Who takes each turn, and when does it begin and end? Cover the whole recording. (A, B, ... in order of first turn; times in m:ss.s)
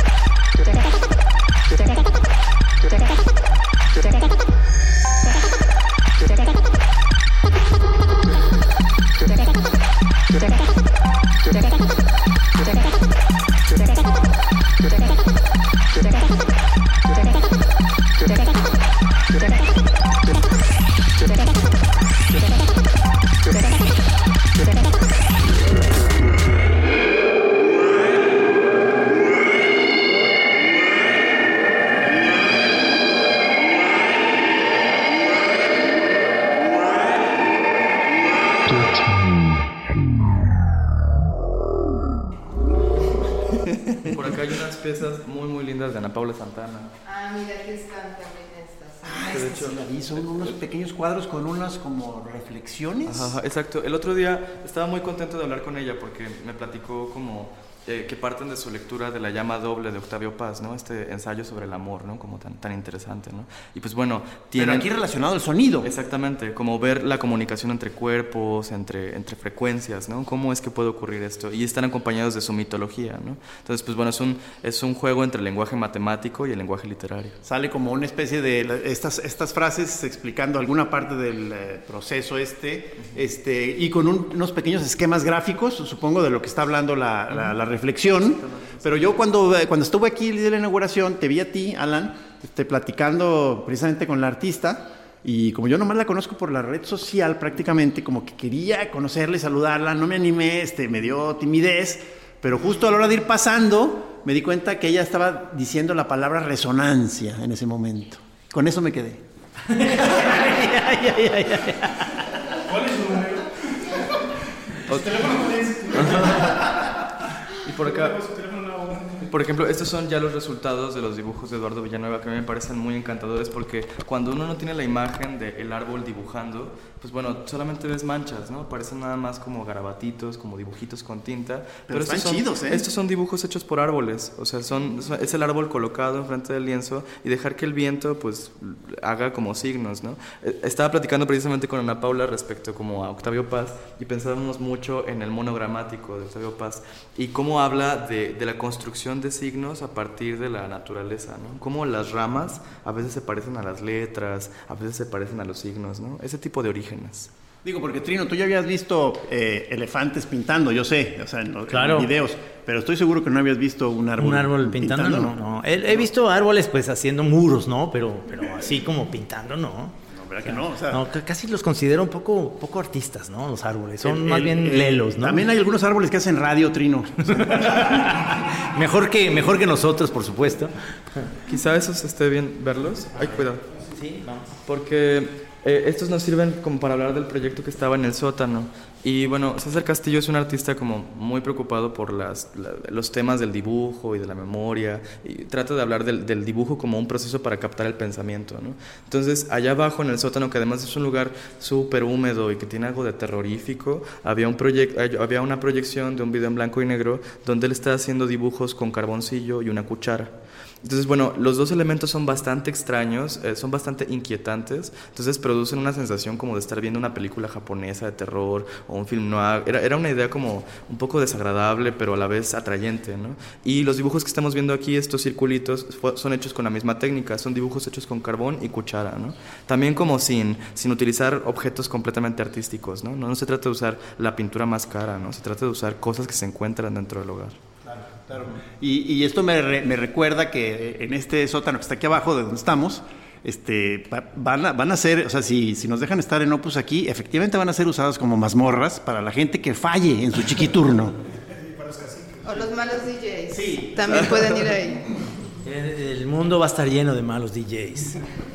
0:44.0-0:46.9 A
0:47.0-0:49.4 B
0:49.0-0:53.4 C
0:49.3-0:50.6 A
0:53.0-1:04.9 A
1:04.6-1:05.9 C
1:05.8-1:17.4 A
1:17.4-1:49.2 C
1:28.3-1:29.0 A
1:49.8-1:52.1 D
1:52.6-1:53.5 E
1:54.9-1:56.6 E
1:54.9-1:56.7 A
1:57.6-1:58.2 A
1:57.7-1:59.3 E
1:59.3-2:37.3 A
2:11.9-2:12.8 C
2:37.6-2:45.4 C
2:41.7-2:42.1 D
2:44.2-2:55.4 D
2:50.1-2:51.0 C
2:54.0-2:57.8 C
2:57.3-3:01.3 D
3:01.5-3:03.6 A
3:03.9-3:04.6 D
3:04.6-3:57.6 A
3:57.8-4:11.1 C
4:11.8-4:12.4 E
4:12.4-4:15.2 B
4:13.5-4:14.6 C
4:15.6-4:18.2 D